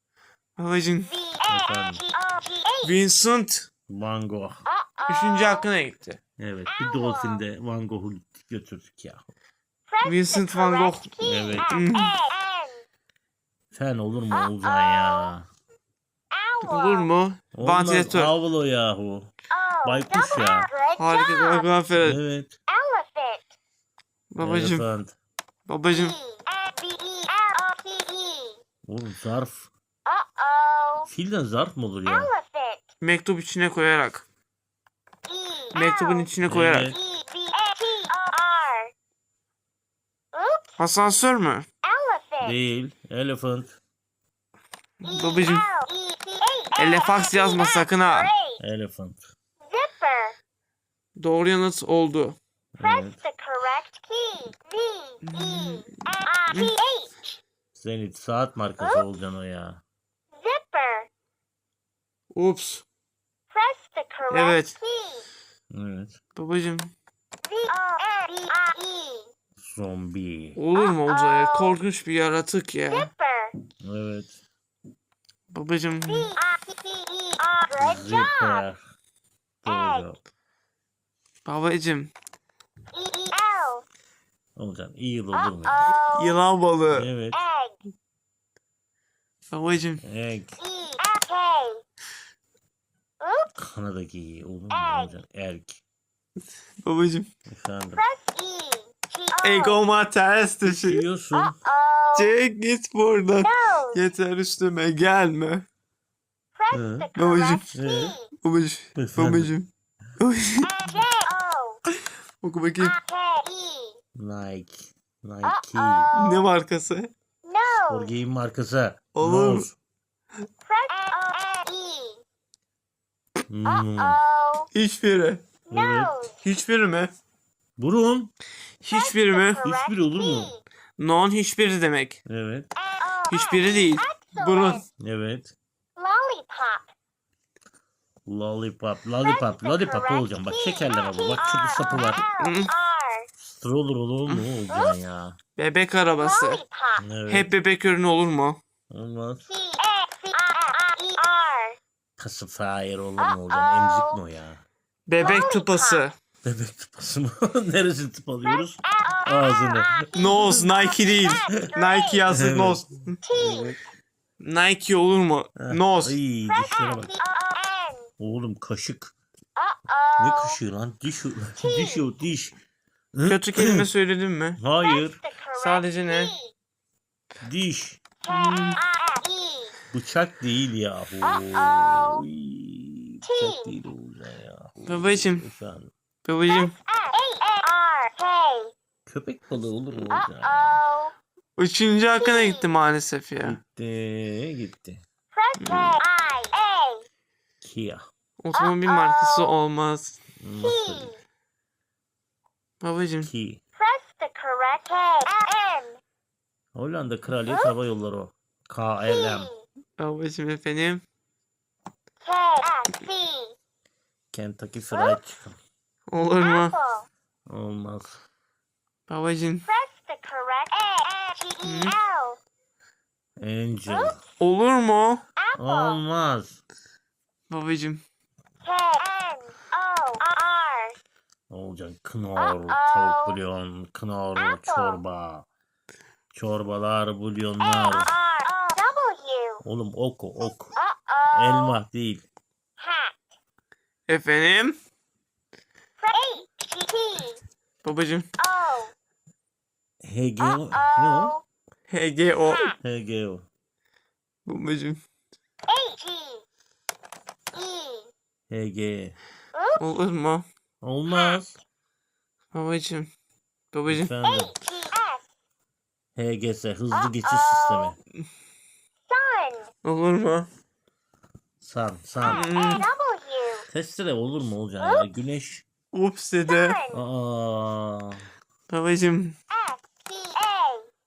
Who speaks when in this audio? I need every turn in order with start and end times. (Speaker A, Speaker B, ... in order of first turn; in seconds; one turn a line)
Speaker A: 0.6-1.1
Speaker B: 1.1-3.0
Speaker C: 1.5-2.0
Speaker A: 2.8-3.7
Speaker C: 3.9-4.7
Speaker B: 4.7-5.6
Speaker A: 5.1-6.2
Speaker C: 6.4-9.3
Speaker B: 6.7-7.4
Speaker B: 9.9-12.8
Speaker A: 10.0-11.1
Speaker C: 11.2-11.7
Speaker A: 11.7-12.2
Speaker C: 13.7-15.5
Speaker B: 14.6-15.3
Speaker B: 16.3-17.1
Speaker A: 16.6-18.3
Speaker C: 17.5-19.3
Speaker B: 19.5-21.7
Speaker C: 19.8-20.7
Speaker A: 21.0-22.2
Speaker C: 21.9-22.5
Speaker B: 22.7-23.5
Speaker A: 24.3-24.8
Speaker C: 24.4-25.1
Speaker A: 25.7-26.2
Speaker B: 25.9-28.6
Speaker C: 28.8-29.7
Speaker B: 30.1-31.1
Speaker C: 31.1-32.3
Speaker B: 32.0-32.9
Speaker A: 33.0-34.2
Speaker B: 35.2-36.3
Speaker A: 35.7-36.9
Speaker C: 36.4-37.0
Speaker B: 36.9-38.9
Speaker B: 40.3-40.8
Speaker A: 40.8-41.6
Speaker B: 41.8-42.5
Speaker C: 42.4-43.8
Speaker A: 45.0-45.7
Speaker B: 45.0-48.6
Speaker A: 46.8-48.3
Speaker C: 48.6-49.3
Speaker B: 49.6-50.4
Speaker A: 51.1-52.4
Speaker C: 52.8-53.2
Speaker B: 52.8-57.4
Speaker A: 55.2-56.7
Speaker C: 57.7-59.8
Speaker B: 58.8-59.0
Speaker B: 60.3-61.1
Speaker A: 62.3-62.8
Speaker B: 63.5-65.3
Speaker A: 64.3-64.8
Speaker C: 65.7-66.2
Speaker A: 66.3-66.9
Speaker B: 67.5-69.3
Speaker C: 69.6-70.6
Speaker A: 70.5-73.1
Speaker B: 70.8-71.8
Speaker B: 72.9-73.5
Speaker C: 73.8-74.4
Speaker A: 75.5-76.3
Speaker B: 76.0-78.6
Speaker C: 77.8-78.8
Speaker C: 79.6-80.2
Speaker B: 79.6-80.0
Speaker A: 81.4-82.1
Speaker B: 82.9-83.8
Speaker C: 84.5-85.9
Speaker B: 85.3-86.4
Speaker A: 86.0-87.1
Speaker C: 86.9-87.4
Speaker B: 87.3-87.8
Speaker A: 89.5-90.0
Speaker C: 90.0-90.6
Speaker B: 90.6-91.8
Speaker B: 93.2-93.5
Speaker C: 93.5-95.8
Speaker B: 94.7-95.1
Speaker A: 96.8-97.3
Speaker C: 97.5-98.0
Speaker B: 97.9-99.8
Speaker A: 99.4-101.0
Speaker C: 100.6-101.6
Speaker B: 101.3-102.3
Speaker A: 102.2-105.6
Speaker B: 103.4-104.0
Speaker B: 106.5-108.3
Speaker C: 106.7-107.1
Speaker A: 107.1-107.7
Speaker C: 107.7-108.2
Speaker A: 108.4-111.0
Speaker C: 108.9-109.5
Speaker B: 110.7-111.8
Speaker A: 111.9-113.0
Speaker B: 112.8-114.0
Speaker C: 114.1-116.1
Speaker B: 115.4-116.5
Speaker A: 116.1-117.1
Speaker B: 117.4-118.1
Speaker C: 117.9-119.8
Speaker A: 119.1-119.7
Speaker B: 120.6-122.2
Speaker C: 123.5-124.2
Speaker B: 123.7-124.7
Speaker A: 124.7-125.4
Speaker C: 125.7-126.2
Speaker B: 125.7-126.4
Speaker A: 126.4-127.1
Speaker C: 127.8-128.3
Speaker A: 128.8-129.6
Speaker B: 128.9-130.6
Speaker C: 129.6-130.5
Speaker A: 131.0-132.2
Speaker C: 132.2-132.7
Speaker B: 132.8-134.8
Speaker A: 133.3-134.8
Speaker C: 135.0-135.5
Speaker B: 135.9-136.9
Speaker C: 138.2-142.2
Speaker B: 139.2-143.3
Speaker A: 142.2-142.7
Speaker C: 143.4-145.4
Speaker B: 144.7-144.9
Speaker A: 145.6-146.6
Speaker B: 146.2-147.0
Speaker C: 147.0-147.5
Speaker A: 147.3-148.6
Speaker C: 148.9-149.4
Speaker B: 149.5-151.8
Speaker C: 152.2-154.6
Speaker B: 153.2-154.2
Speaker A: 155.1-156.1
Speaker B: 155.2-156.0
Speaker C: 156.4-160.5
Speaker B: 158.4-162.2
Speaker A: 160.1-163.2
Speaker C: 162.3-163.8
Speaker B: 163.2-163.8
Speaker A: 164.4-166.2
Speaker C: 165.6-167.2
Speaker B: 166.5-168.1
Speaker C: 168.2-169.1
Speaker B: 169.6-170.6
Speaker C: 170.2-172.6
Speaker B: 171.6-172.1
Speaker C: 173.1-173.9
Speaker A: 173.2-174.6
Speaker C: 174.6-175.2
Speaker B: 174.8-176.5
Speaker A: 175.5-176.3
Speaker C: 177.4-178.0
Speaker A: 178.3-178.8
Speaker B: 178.3-179.8
Speaker C: 179.9-185.9
Speaker B: 181.2-182.2
Speaker B: 183.2-183.7
Speaker A: 184.9-185.4
Speaker A: 186.2-186.7
Speaker B: 186.5-188.7
Speaker C: 189.1-190.8
Speaker B: 190.1-191.1
Speaker A: 191.6-193.6
Speaker B: 192.2-192.7
Speaker C: 193.4-195.0
Speaker B: 195.3-197.0
Speaker A: 195.6-196.0
Speaker C: 197.6-198.1
Speaker A: 198.4-200.2
Speaker B: 198.5-199.6
Speaker C: 200.4-201.2
Speaker B: 200.6-201.2
Speaker A: 202.8-203.3
Speaker C: 203.2-203.6
Speaker B: 203.8-206.0
Speaker C: 206.7-209.5
Speaker B: 209.0-209.6
Speaker A: 210.0-211.0
Speaker B: 212.2-213.6
Speaker C: 214.3-215.6
Speaker A: 216.1-216.7
Speaker B: 216.4-217.1
Speaker C: 217.5-218.2
Speaker A: 219.1-219.7
Speaker B: 219.7-222.4
Speaker A: 221.6-222.0
Speaker C: 223.4-224.2
Speaker A: 224.4-225.2
Speaker B: 225.4-226.0
Speaker C: 225.6-226.6
Speaker A: 227.5-228.0
Speaker B: 228.6-231.0
Speaker C: 231.5-235.5
Speaker B: 232.4-233.4
Speaker B: 234.3-235.0
Speaker C: 236.3-238.1
Speaker B: 237.6-239.6
Speaker C: 239.6-240.8
Speaker B: 240.8-241.8
Speaker C: 241.3-242.2
Speaker B: 242.8-243.2
Speaker A: 244.1-244.8
Speaker B: 246.0-247.4
Speaker A: 247.8-248.3
Speaker B: 248.4-248.9
Speaker C: 250.0-251.3
Speaker B: 250.4-251.4
Speaker A: 251.9-252.7
Speaker B: 252.5-252.8
Speaker C: 252.8-253.4
Speaker A: 254.4-255.0
Speaker B: 255.7-256.4
Speaker B: 257.5-258.1
Speaker C: 258.5-259.1
Speaker B: 259.5-259.8
Speaker A: 259.8-260.4
Speaker C: 260.8-261.6
Speaker B: 261.1-261.4
Speaker A: 262.5-263.1
Speaker A: 263.7-264.1
Speaker C: 263.9-264.6
Speaker B: 264.2-265.2
Speaker C: 266.1-268.0
Speaker B: 266.9-267.9
Speaker B: 269.1-269.7
Speaker A: 269.8-270.5
Speaker C: 271.6-272.5
Speaker B: 272.3-273.7
Speaker A: 272.3-272.9
Speaker C: 273.7-275.6
Speaker A: 275.9-276.8
Speaker B: 276.5-277.0
Speaker C: 276.9-278.3
Speaker A: 278.7-279.4
Speaker B: 279.5-280.9